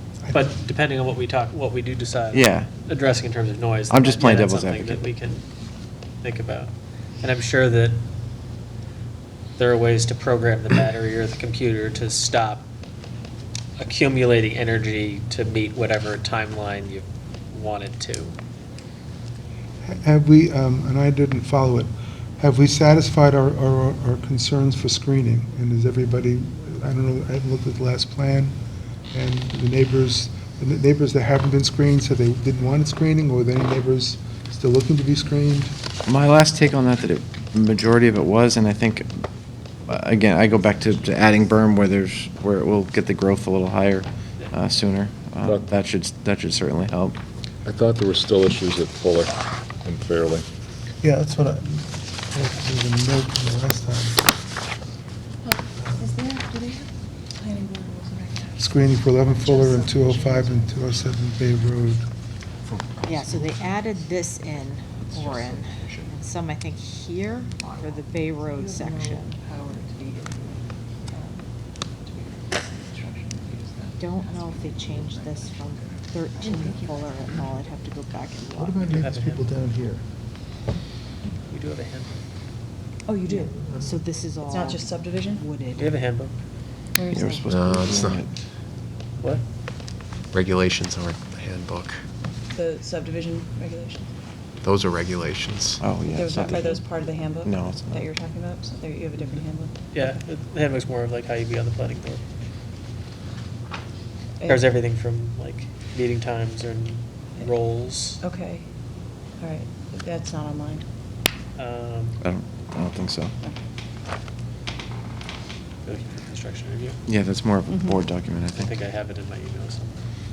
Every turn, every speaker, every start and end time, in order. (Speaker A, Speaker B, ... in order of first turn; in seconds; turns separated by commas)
Speaker A: 0.3-5.5, Speaker B: 2.3-2.7, Speaker B: 3.9-5.0, Speaker A: 6.2-8.0, Speaker A: 9.6-12.7, Speaker A: 13.8-18.4, Speaker C: 19.8-28.6, Speaker C: 29.1-35.8, Speaker B: 36.1-39.2, Speaker B: 39.9-47.2, Speaker D: 45.4-45.7, Speaker D: 47.6-50.5, Speaker C: 51.0-54.2, Speaker C: 55.8-56.1, Speaker E: 56.0-56.8, Speaker E: 57.4-58.6, Speaker C: 58.6-62.1, Speaker E: 59.5-60.5, Speaker F: 62.8-63.1, Speaker G: 63.0-69.3, Speaker F: 65.1-66.0, Speaker E: 68.6-70.0, Speaker F: 69.5-70.3, Speaker F: 72.1-75.7, Speaker E: 73.0-73.6, Speaker G: 74.0-78.8, Speaker E: 76.4-76.8, Speaker C: 78.5-80.0, Speaker A: 78.9-79.5, Speaker A: 81.5-82.1, Speaker E: 83.2-83.5, Speaker G: 83.2-86.0, Speaker C: 83.5-84.0, Speaker E: 84.4-85.5, Speaker A: 85.8-86.4, Speaker E: 87.0-87.7, Speaker G: 87.1-87.5, Speaker B: 87.2-88.3, Speaker F: 91.1-91.5, Speaker E: 92.5-94.2, Speaker B: 95.8-96.8, Speaker E: 96.1-100.0, Speaker B: 97.4-98.0, Speaker A: 99.9-102.2, Speaker E: 104.4-104.7, Speaker A: 104.5-108.2, Speaker E: 108.1-108.7, Speaker E: 109.3-110.9, Speaker A: 111.6-112.2, Speaker B: 112.2-113.3, Speaker A: 115.8-117.0, Speaker B: 117.1-118.7, Speaker E: 117.7-118.0, Speaker A: 118.5-120.0